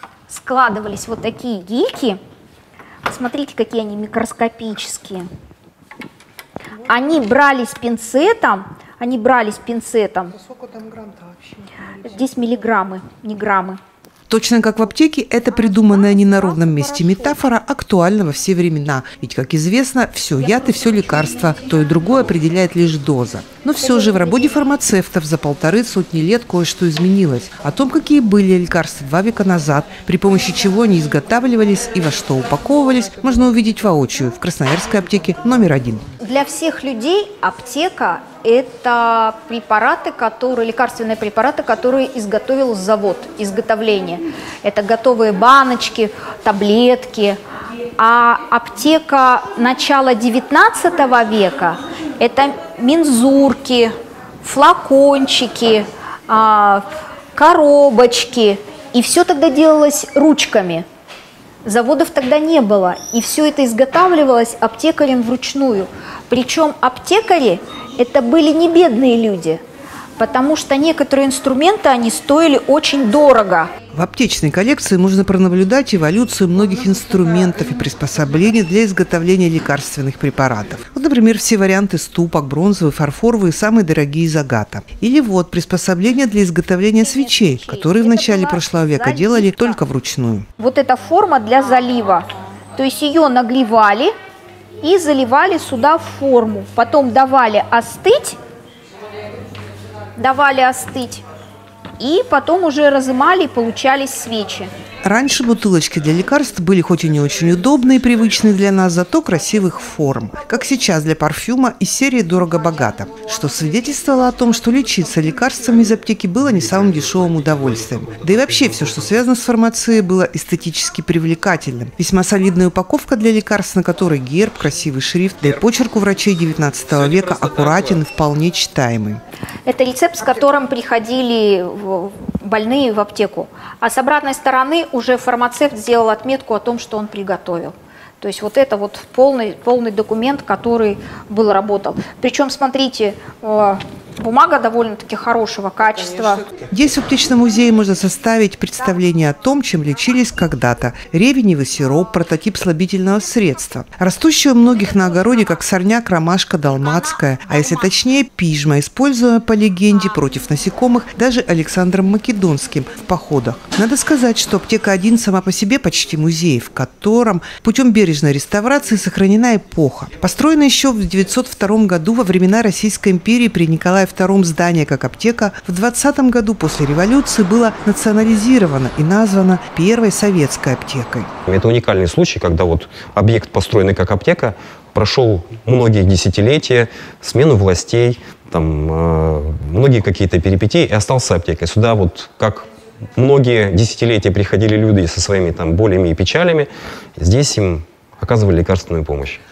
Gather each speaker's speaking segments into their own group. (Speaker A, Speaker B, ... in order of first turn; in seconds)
Speaker A: 0.3-2.2, 3.0-5.3, 6.9-10.3, 12.0-13.8, 15.6-17.4, 36.2-47.4, 48.0-60.9, 61.6-69.6, 70.2-73.7, 87.0-89.8, 90.6-94.1, 94.8-98.4, 100.2-101.2, 102.0-104.7, 129.7-146.5, 157.5-157.8
Speaker B: 10.6-11.4, 14.3-36.0, 73.9-90.5, 105.0-129.2, 146.7-181.3
Speaker C: 181.5-199.4